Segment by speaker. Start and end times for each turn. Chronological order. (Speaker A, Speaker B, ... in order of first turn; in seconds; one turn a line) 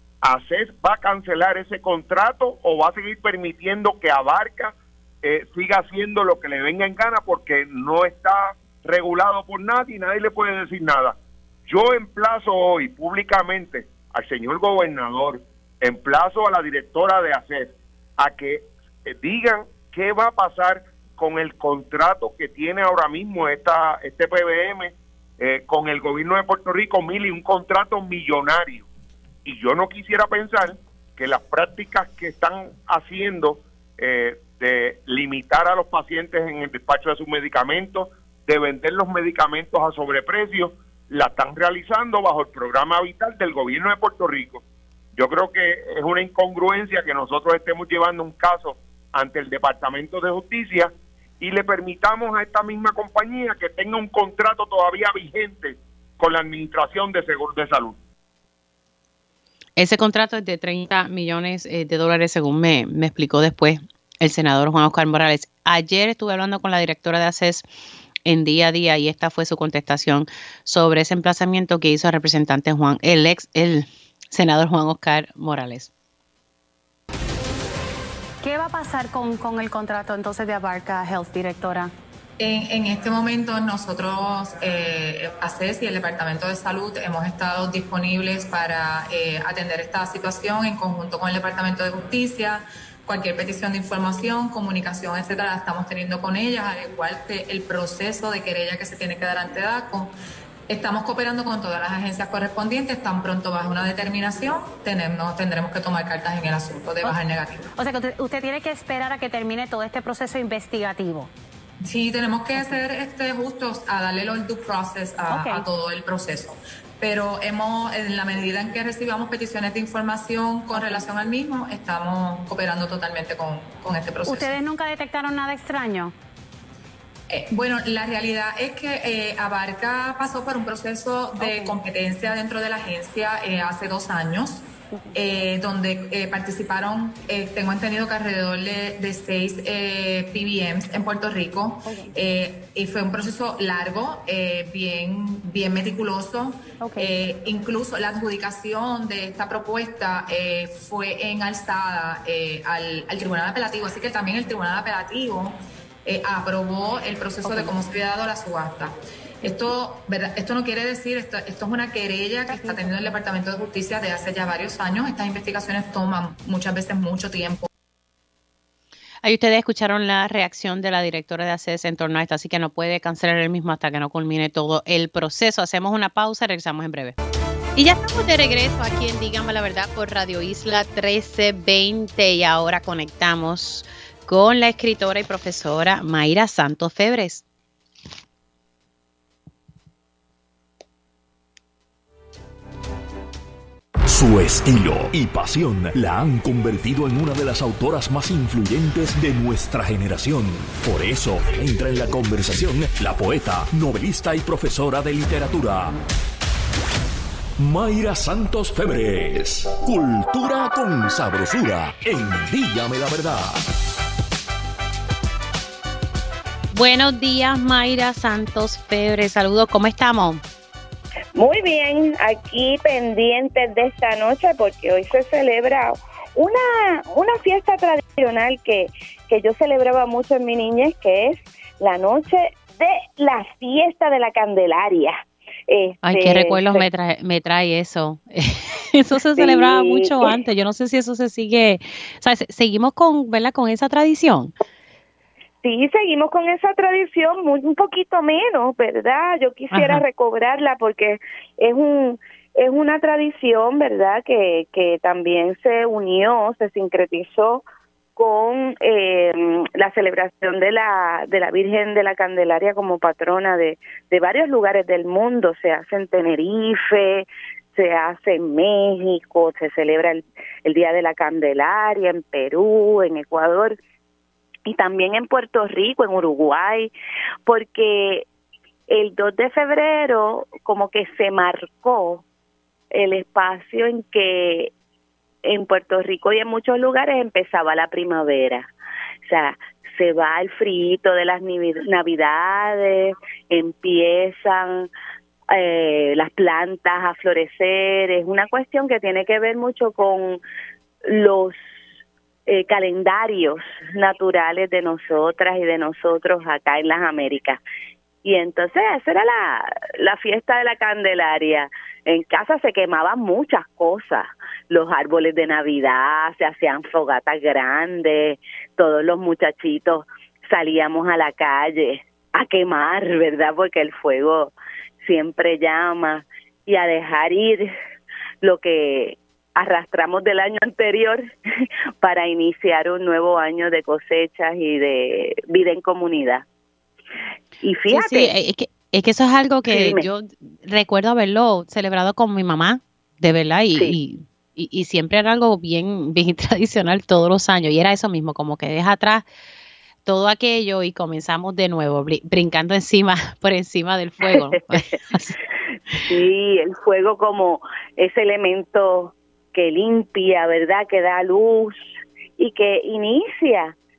Speaker A: 0.2-28.9
Speaker A: 29.4-44.6
Speaker A: 45.2-58.0
Speaker B: 59.8-67.7
Speaker B: 68.2-75.9
Speaker C: 78.4-81.9
Speaker D: 82.4-100.2
Speaker D: 100.7-107.7
Speaker C: 107.8-111.3
Speaker D: 111.8-124.6
Speaker C: 115.3-115.7
Speaker C: 120.7-121.1
Speaker C: 124.2-126.1
Speaker D: 127.3-167.7
Speaker C: 131.4-131.8
Speaker C: 141.8-142.1
Speaker C: 146.8-147.1
Speaker C: 157.4-157.8
Speaker C: 162.5-162.9
Speaker B: 169.2-177.2
Speaker B: 177.8-187.4
Speaker E: 194.1-205.9
Speaker E: 207.6-213.7
Speaker B: 216.7-220.4
Speaker F: 221.4-236.8
Speaker B: 236.0-244.5
Speaker F: 239.4-240.3
Speaker F: 245.6-257.6
Speaker B: 249.7-250.0
Speaker F: 258.2-273.8
Speaker F: 274.7-276.9
Speaker F: 277.5-278.2
Speaker F: 278.9-282.2
Speaker F: 282.9-284.7
Speaker F: 285.4-288.7
Speaker F: 289.2-294.9
Speaker F: 295.5-300.4
Speaker F: 301.1-301.6
Speaker F: 302.5-307.6
Speaker F: 308.2-327.7
Speaker F: 328.4-331.2
Speaker F: 332.0-336.4
Speaker F: 337.6-338.3
Speaker B: 337.9-349.3
Speaker F: 339.7-340.1
Speaker B: 350.1-355.4
Speaker F: 354.3-354.6
Speaker F: 356.1-363.8